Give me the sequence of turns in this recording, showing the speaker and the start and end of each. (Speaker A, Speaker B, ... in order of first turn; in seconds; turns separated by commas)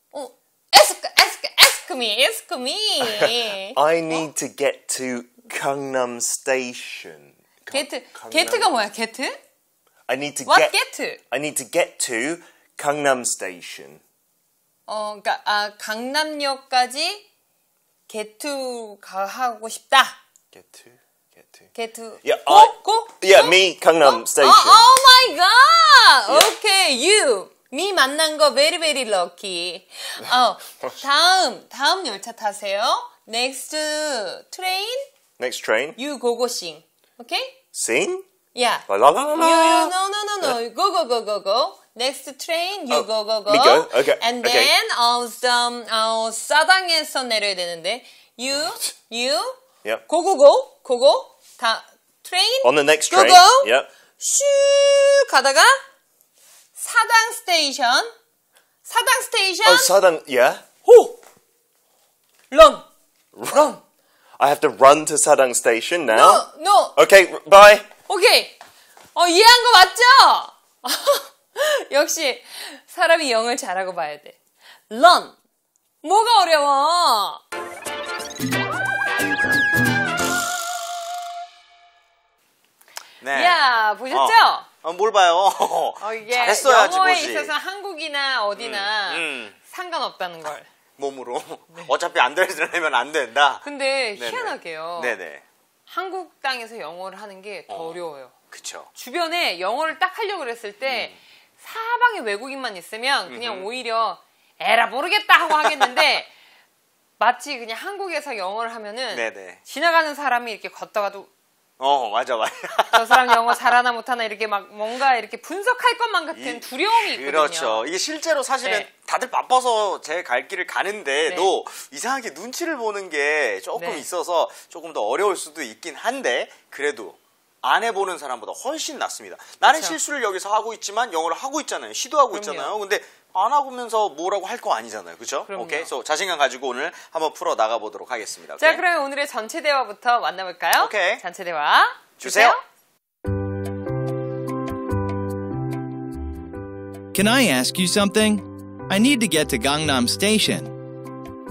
Speaker A: 0.1-4.3, Speaker B: 3.0-8.7, Speaker A: 7.7-9.4, Speaker B: 10.1-10.7, Speaker A: 10.4-11.2, Speaker B: 11.3-14.0, Speaker A: 14.9-17.2, Speaker A: 18.1-20.2, Speaker B: 20.5-21.7, Speaker A: 21.7-35.0, Speaker B: 22.2-24.9, Speaker B: 35.4-36.0, Speaker A: 36.0-37.6, Speaker B: 37.7-38.2, Speaker A: 38.5-55.8, Speaker B: 38.9-40.6, Speaker B: 42.9-44.7, Speaker B: 52.6-53.9, Speaker A: 56.8-58.1, Speaker A: 58.8-59.9, Speaker B: 59.6-60.6, Speaker A: 60.8-61.2, Speaker A: 62.5-62.9, Speaker B: 63.3-63.7, Speaker A: 63.5-63.8, Speaker B: 64.4-67.9, Speaker A: 66.1-67.0, Speaker A: 68.1-68.6, Speaker A: 69.1-74.4, Speaker A: 74.9-75.4, Speaker A: 76.0-77.4, Speaker C: 83.2-87.5, Speaker A: 83.3-84.7, Speaker A: 86.0-90.7, Speaker C: 88.5-89.5, Speaker C: 91.0-93.6, Speaker A: 93.6-95.2, Speaker C: 94.2-95.4, Speaker A: 95.9-98.3, Speaker C: 97.7-98.0, Speaker C: 98.5-98.9, Speaker A: 98.9-106.3, Speaker C: 100.8-101.2, Speaker C: 103.3-103.7, Speaker A: 107.2-111.3, Speaker C: 109.1-109.6, Speaker C: 111.8-113.4, Speaker A: 112.9-117.9, Speaker C: 116.3-138.8, Speaker A: 118.6-118.9, Speaker A: 121.3-121.5, Speaker A: 123.8-124.1, Speaker A: 129.6-130.0, Speaker A: 132.3-132.8, Speaker A: 135.5-135.9, Speaker A: 138.6-142.6, Speaker C: 140.8-141.2, Speaker C: 142.2-142.6, Speaker D: 147.1-150.7